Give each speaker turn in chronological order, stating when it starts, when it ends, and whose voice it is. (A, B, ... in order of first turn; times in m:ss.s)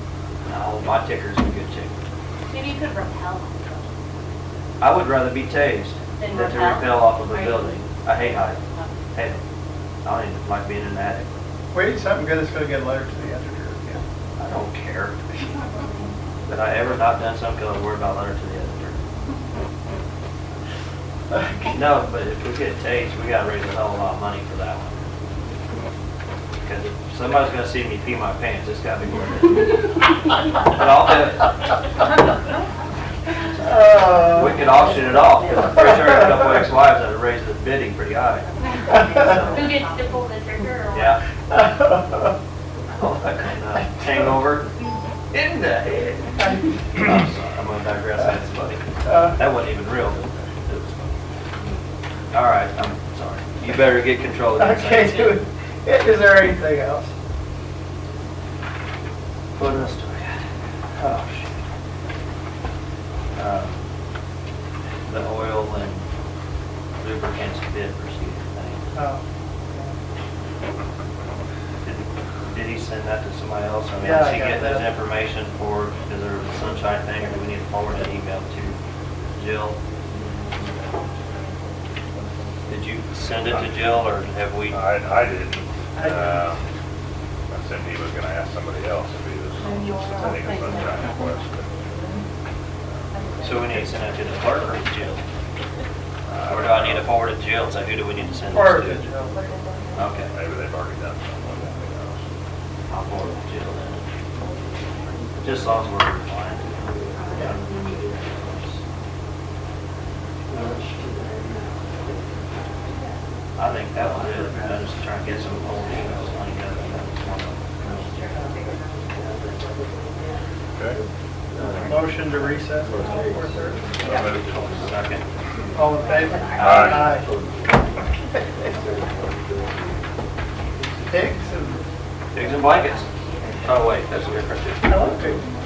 0:00.5-0:02.0 A
0:02.5-0:03.9 B
0:04.8-0:08.6 A
0:06.2-0:07.7 B
0:09.1-0:09.4 A
0:10.0-0:11.3 A
0:11.7-0:14.0 C
0:14.4-0:15.2 A
0:15.8-0:16.1 B
0:16.5-0:19.0 A
0:21.7-0:25.0 A
0:26.6-0:30.0 A
0:30.6-0:32.0 A
0:33.6-0:34.6 C
0:34.2-0:39.7 A
0:38.8-0:41.2 B
0:40.9-0:41.2 A
0:42.9-0:44.7 A
0:45.3-0:51.2 A
0:49.1-0:49.3 C
0:52.3-0:55.4 A
0:54.6-0:57.1 C
0:59.6-1:00.4 A
1:01.0-1:01.5 A
1:03.4-1:03.8 A
1:05.1-1:06.1 A
1:07.0-1:08.9 A
1:08.9-1:09.9 C
1:11.8-1:18.8 A
1:14.0-1:14.9 C
1:19.4-1:19.8 A
1:22.7-1:24.8 A
1:23.4-1:23.8 D
1:24.7-1:26.6 D
1:26.0-1:26.4 C
1:27.5-1:31.7 D
1:33.4-1:35.2 A
1:36.3-1:37.1 D
1:36.4-1:39.1 A
1:38.5-1:39.4 C
1:40.0-1:40.3 A
1:40.3-1:42.3 D
1:42.9-1:44.0 A
1:45.4-1:46.8 A
1:47.3-1:48.8 A
1:53.6-1:58.0 A
2:01.8-2:03.9 C
2:04.0-2:04.6 D
2:04.6-2:05.3 A
2:05.8-2:07.3 C
2:06.5-2:07.2 A
2:06.6-2:07.1 D
2:11.1-2:11.8 C
2:12.3-2:15.1 A
2:14.9-2:15.5 C